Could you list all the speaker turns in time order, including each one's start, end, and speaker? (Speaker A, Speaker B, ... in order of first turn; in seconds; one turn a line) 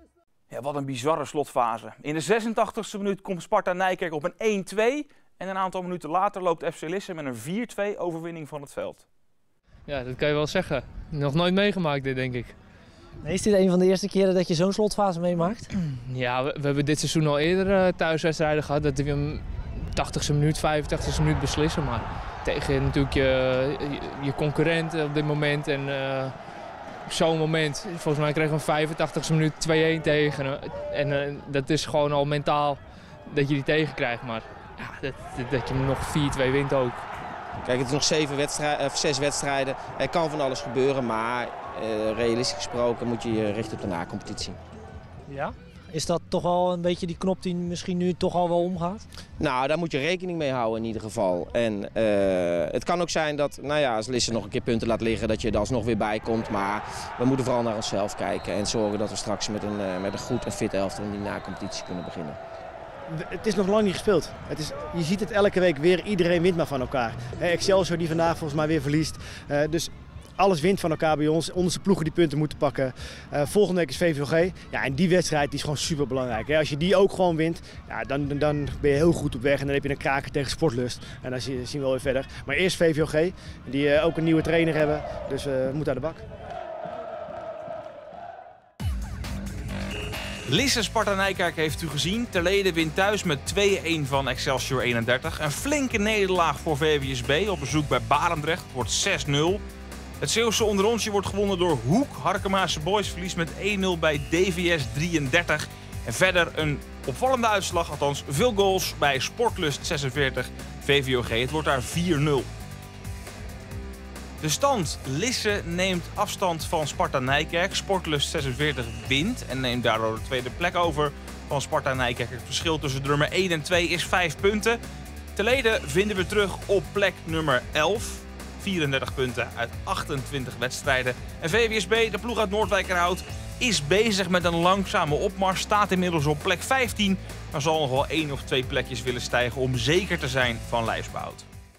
Speaker A: 0.5-9.1
Speaker B: 9.9-12.6
Speaker C: 13.2-15.7
Speaker B: 15.8-26.3
Speaker B: 27.1-37.1
Speaker D: 37.6-44.6
Speaker C: 45.3-49.0
Speaker D: 49.4-62.4
Speaker E: 63.1-86.2
Speaker A: 90.5-99.6
Speaker A: 100.2-112.5
Speaker A: 114.4-124.8
Speaker A: 125.3-141.5